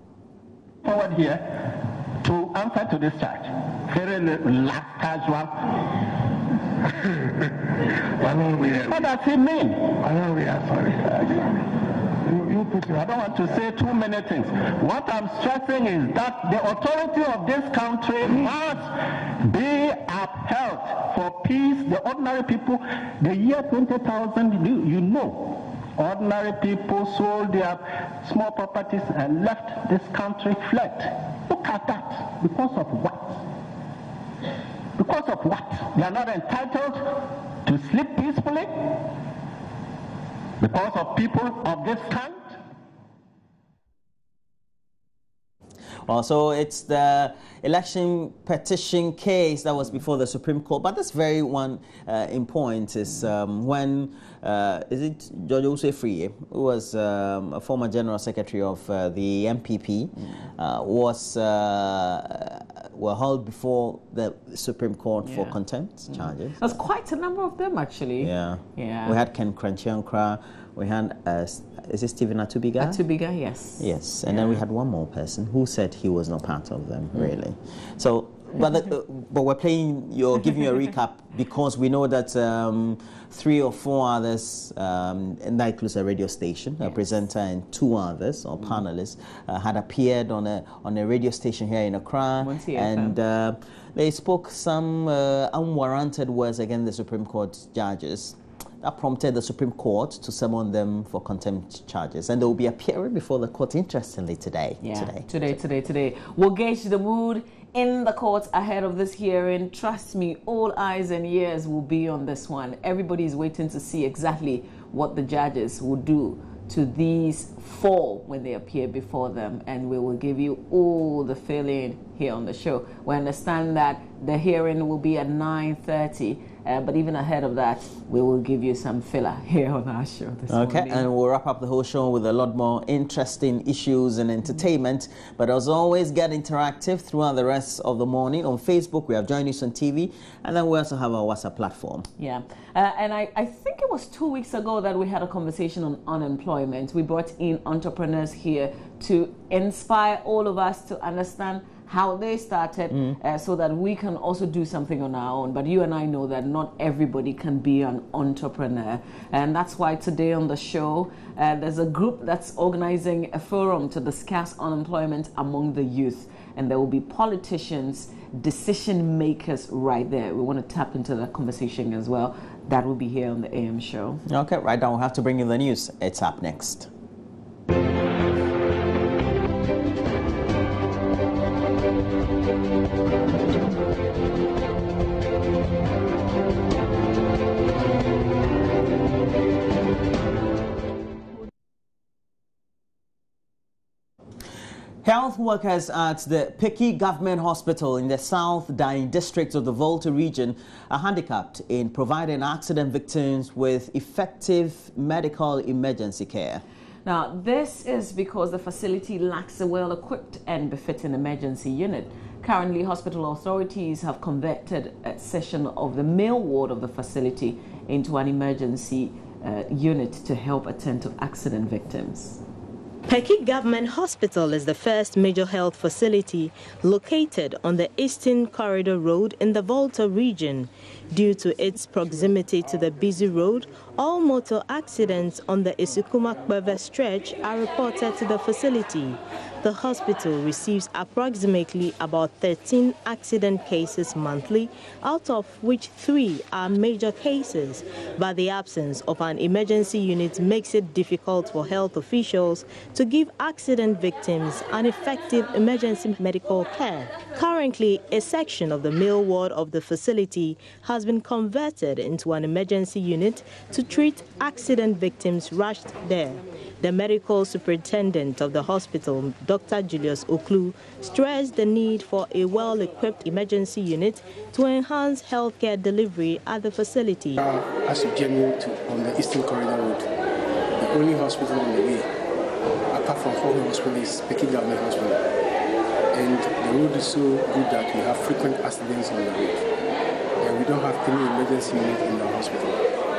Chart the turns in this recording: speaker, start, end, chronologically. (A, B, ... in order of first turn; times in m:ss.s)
0:00.8-0:05.9 A
0:08.2-0:11.5 A
0:12.2-0:33.5 A
0:35.0-0:39.1 A
0:40.6-0:42.6 A
0:46.0-1:06.7 B
1:05.2-1:05.6 C
1:06.1-1:09.2 C
1:08.2-1:13.0 B
1:12.8-1:14.6 C
1:13.8-1:45.3 B
1:32.4-1:33.2 C
1:44.8-2:11.1 C
2:10.5-2:22.1 B
2:22.2-2:54.2 C
2:54.3-2:56.9 B
3:15.0-3:26.6 B
3:27.0-3:42.4 C
3:43.1-4:37.4 D
4:37.4-4:40.1 E
4:40.8-4:42.1 E
4:42.9-4:45.2 E
4:46.1-4:49.6 E
4:50.4-4:52.8 E